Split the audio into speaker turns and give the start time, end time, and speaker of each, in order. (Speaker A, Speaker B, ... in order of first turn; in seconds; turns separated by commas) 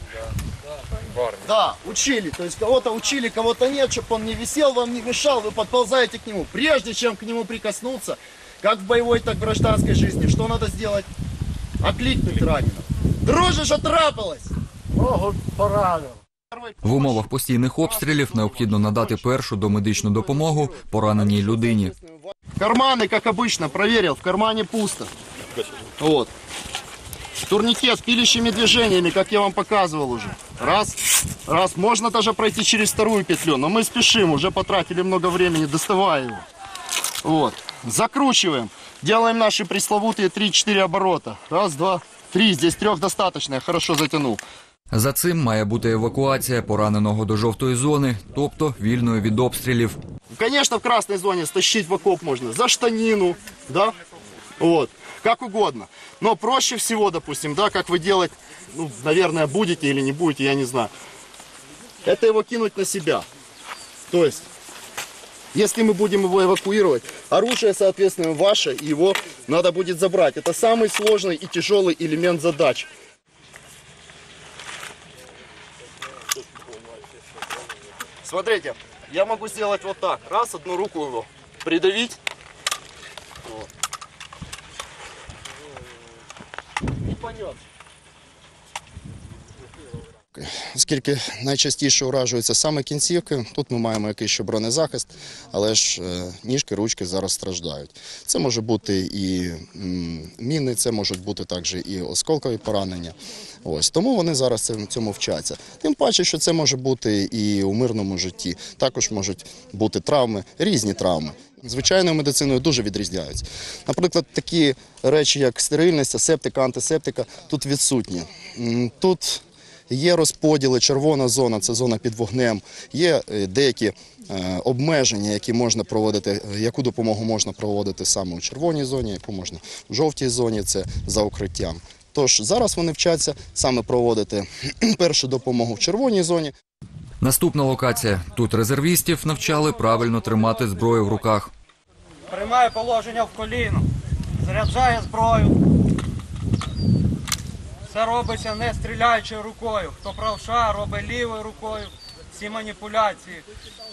Speaker A: 1.4-11.1, Speaker A: 11.8-14.5, Speaker A: 16.5-17.2, Speaker B: 16.8-22.0, Speaker A: 22.6-25.1, Speaker A: 26.0-26.3, Speaker A: 27.4-36.4, Speaker A: 37.2-44.4, Speaker B: 44.9-50.0, Speaker A: 50.3-53.9, Speaker A: 54.6-60.9, Speaker A: 62.0-63.2, Speaker A: 64.1-64.4, Speaker A: 65.5-72.9, Speaker A: 78.2-82.2, Speaker C: 90.3-136.5, Speaker B: 137.2-141.5, Speaker D: 142.3-143.9, Speaker D: 144.4-145.6, Speaker D: 147.9-153.4